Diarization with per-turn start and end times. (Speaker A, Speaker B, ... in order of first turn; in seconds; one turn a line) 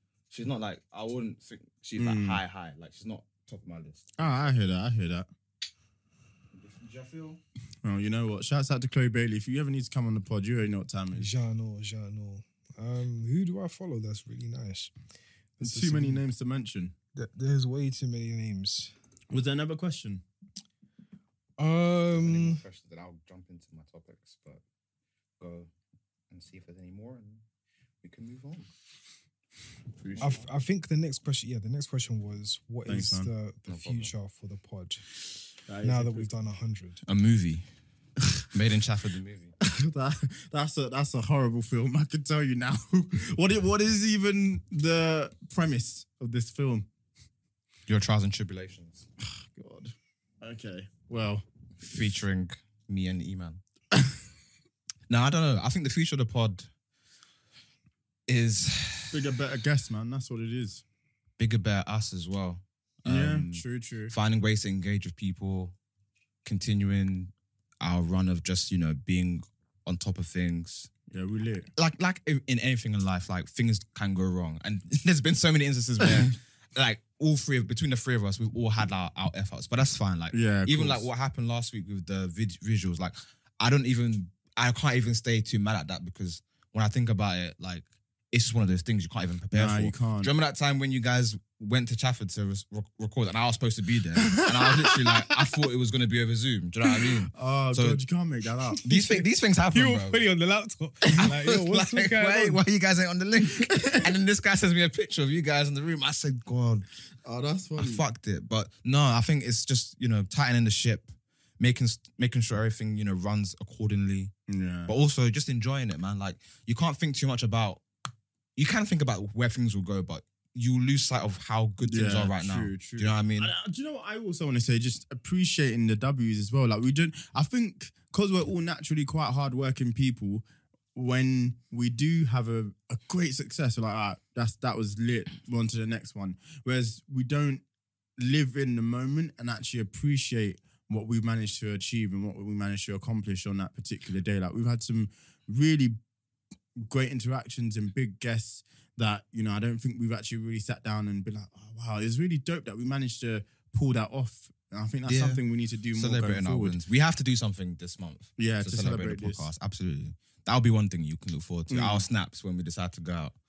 Speaker A: 0.3-4.0
Speaker B: 2.0-2.4
Speaker B: 4.2-5.3
Speaker A: 6.5-7.4
Speaker B: 7.8-11.3
Speaker C: 11.1-14.9
Speaker C: 15.6-16.2
Speaker B: 15.6-16.9
Speaker C: 17.1-18.9
Speaker B: 19.3-20.2
Speaker C: 21.6-22.6
Speaker A: 22.1-24.6
Speaker A: 25.4-25.7
Speaker A: 26.3-27.4
Speaker A: 28.0-28.7
Speaker B: 30.0-30.4
Speaker A: 30.0-30.4
Speaker C: 30.2-35.0
Speaker B: 32.9-33.3
Speaker A: 33.7-34.1
Speaker B: 35.7-36.3
Speaker C: 35.8-37.0
Speaker A: 37.1-37.6
Speaker A: 38.5-39.5
Speaker B: 39.6-46.9
Speaker A: 47.9-49.0
Speaker B: 49.2-51.4
Speaker A: 51.8-53.6
Speaker A: 55.1-56.7
Speaker A: 58.3-59.2
Speaker B: 59.1-60.8
Speaker A: 61.4-65.7
Speaker B: 63.0-64.1
Speaker A: 66.4-70.9
Speaker B: 71.1-71.7
Speaker A: 71.8-98.0
Speaker B: 76.0-76.3
Speaker B: 80.3-81.1
Speaker B: 89.5-90.3
Speaker B: 94.2-95.2
Speaker B: 97.3-99.0
Speaker A: 98.8-100.3
Speaker C: 98.9-99.2
Speaker C: 99.7-102.6
Speaker A: 101.1-106.8
Speaker B: 107.2-108.0
Speaker A: 107.8-114.3
Speaker B: 114.5-114.9
Speaker A: 114.9-117.8
Speaker A: 118.5-123.5
Speaker B: 121.8-137.6
Speaker B: 138.2-146.0
Speaker B: 146.8-156.8
Speaker A: 155.1-155.4
Speaker A: 155.9-163.3
Speaker B: 158.4-159.5
Speaker B: 161.7-162.0